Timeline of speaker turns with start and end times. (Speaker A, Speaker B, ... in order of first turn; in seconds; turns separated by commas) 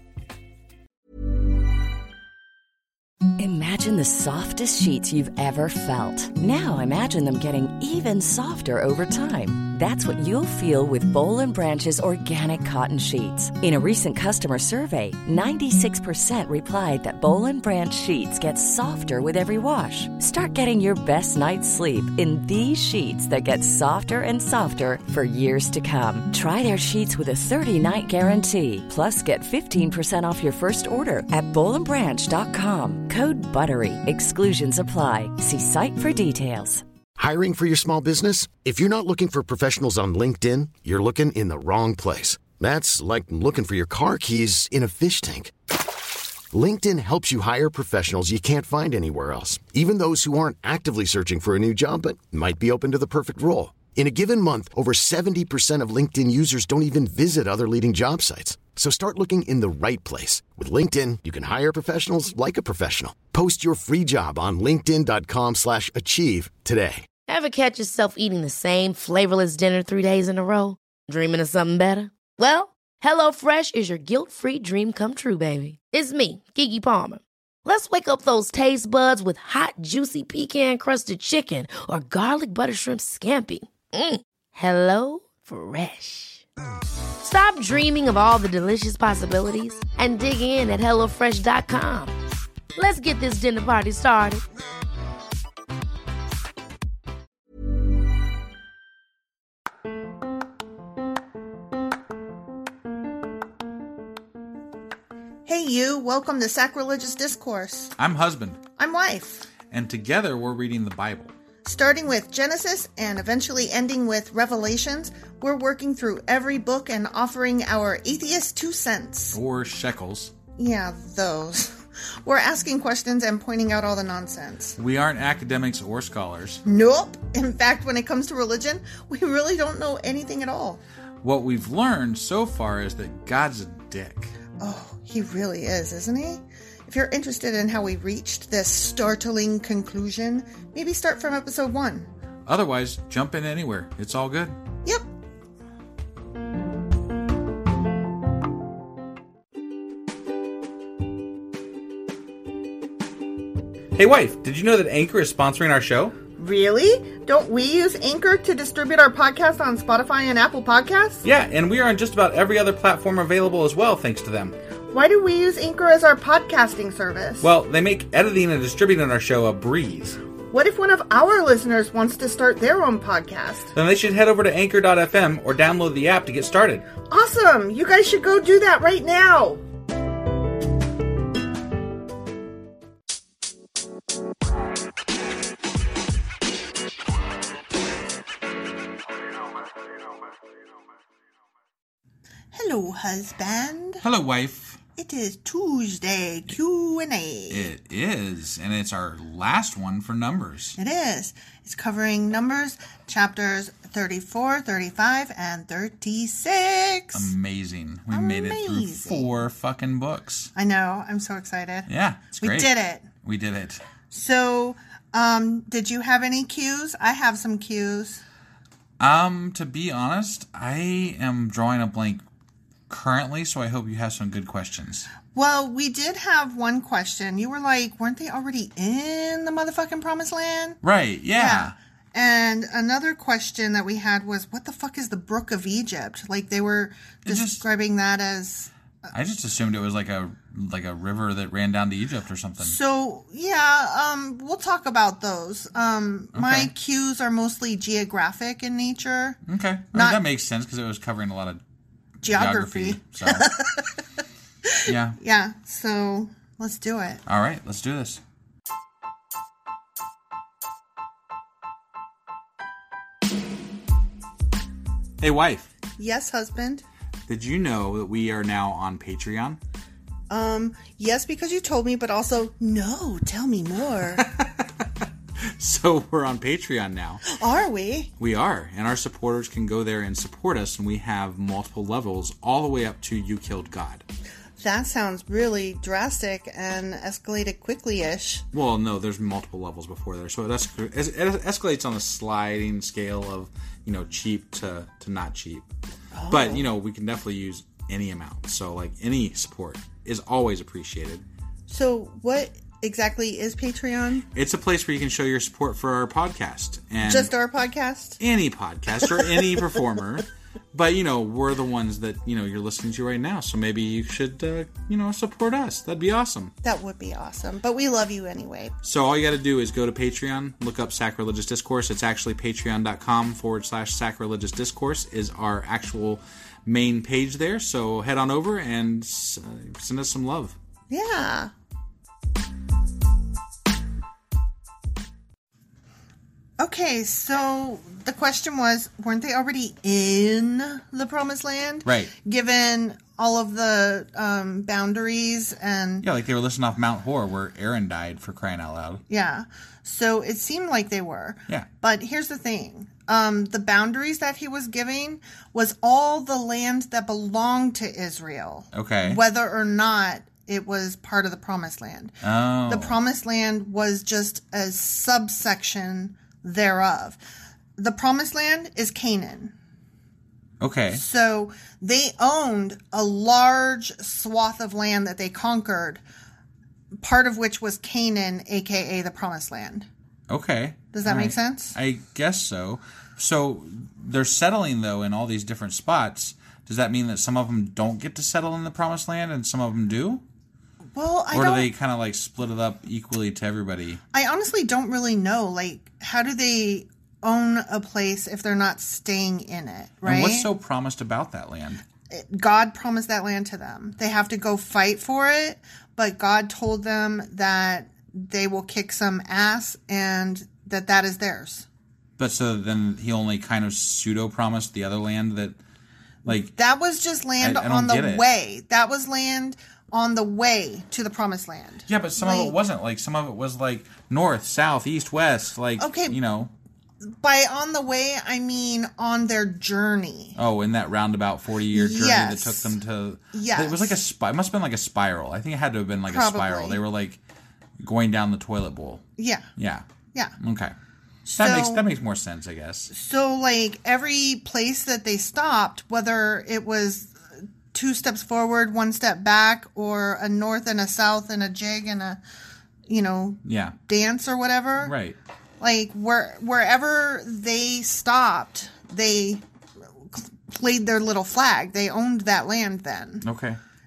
Speaker A: 3.4-36.8, Speaker B: 37.2-45.5, Speaker B: 46.5-67.0, Speaker C: 67.3-86.4, Speaker A: 67.5-70.7, Speaker A: 71.2-77.1, Speaker A: 77.7-83.9, Speaker A: 84.8-86.0, Speaker C: 87.2-92.1, Speaker A: 87.3-92.1, Speaker C: 92.8-94.4, Speaker A: 92.8-94.4, Speaker D: 105.5-107.9, Speaker E: 108.0-108.6, Speaker D: 108.8-109.5, Speaker E: 109.7-111.3, Speaker D: 111.6-119.4, Speaker E: 119.3-120.3, Speaker D: 120.6-124.8, Speaker E: 124.8-126.6, Speaker D: 126.7-130.8, Speaker E: 131.2-134.3, Speaker D: 134.6-142.1, Speaker E: 142.5-144.6, Speaker E: 153.9-156.2, Speaker D: 156.4-161.2, Speaker E: 161.2-164.6, Speaker D: 164.9-167.5, Speaker E: 167.4-170.2, Speaker D: 170.5-173.7, Speaker E: 173.7-176.9, Speaker D: 177.1-179.6, Speaker D: 192.5-194.0, Speaker E: 194.0-194.8, Speaker D: 195.0-197.7, Speaker E: 197.5-200.8, Speaker D: 200.8-207.3, Speaker E: 207.2-210.5, Speaker D: 208.1-209.3, Speaker D: 210.6-211.9, Speaker E: 211.9-212.7, Speaker D: 212.4-213.1, Speaker E: 213.2-213.8, Speaker D: 214.1-218.2, Speaker E: 219.0-222.2, Speaker E: 222.9-225.1, Speaker D: 225.3-230.8, Speaker E: 230.8-231.8, Speaker D: 231.3-238.7, Speaker E: 237.2-237.7, Speaker E: 239.1-242.8, Speaker D: 242.6-249.4, Speaker E: 246.3-246.7, Speaker E: 249.5-251.6, Speaker D: 249.9-250.2, Speaker D: 252.2-253.9, Speaker E: 252.2-253.5, Speaker D: 254.7-257.2, Speaker E: 254.9-255.2, Speaker E: 257.2-258.2, Speaker E: 265.2-265.7, Speaker D: 266.0-266.8, Speaker E: 267.3-269.6, Speaker D: 270.3-274.3, Speaker E: 274.2-274.9, Speaker E: 275.6-277.2, Speaker D: 277.3-278.1, Speaker E: 278.2-284.1, Speaker D: 284.6-288.5, Speaker E: 288.5-295.7, Speaker D: 296.1-296.7, Speaker E: 296.3-301.2, Speaker D: 301.7-304.2, Speaker E: 304.3-307.3, Speaker D: 307.0-308.2, Speaker E: 308.2-316.5, Speaker D: 316.6-318.8, Speaker E: 318.8-330.6, Speaker D: 330.9-331.5, Speaker D: 336.6-346.1, Speaker E: 341.9-342.1, Speaker E: 346.0-349.0, Speaker D: 349.1-367.2, Speaker E: 358.7-359.2, Speaker E: 362.2-363.0, Speaker D: 367.8-369.6, Speaker E: 370.6-371.0, Speaker D: 370.9-376.0, Speaker D: 377.0-379.9, Speaker E: 380.3-390.2, Speaker D: 380.9-381.8, Speaker D: 390.9-391.7, Speaker E: 391.3-394.0, Speaker D: 394.1-400.5, Speaker E: 400.1-401.8, Speaker D: 402.1-411.7, Speaker E: 412.2-415.6, Speaker D: 416.2-422.6, Speaker E: 416.3-416.5, Speaker E: 417.4-418.3, Speaker E: 421.9-426.5, Speaker D: 425.8-426.2, Speaker D: 427.2-430.4, Speaker E: 430.4-437.2, Speaker D: 431.7-432.7, Speaker D: 433.3-434.0, Speaker D: 436.1-436.8, Speaker E: 437.8-439.0, Speaker D: 439.2-439.5, Speaker E: 439.6-439.9, Speaker E: 440.4-440.8, Speaker D: 441.2-441.9, Speaker E: 441.4-442.9, Speaker D: 442.9-447.2, Speaker D: 447.7-452.2, Speaker D: 452.9-454.9, Speaker E: 453.4-453.8, Speaker E: 454.8-455.2, Speaker D: 455.6-459.4, Speaker D: 460.1-463.2, Speaker E: 463.2-463.6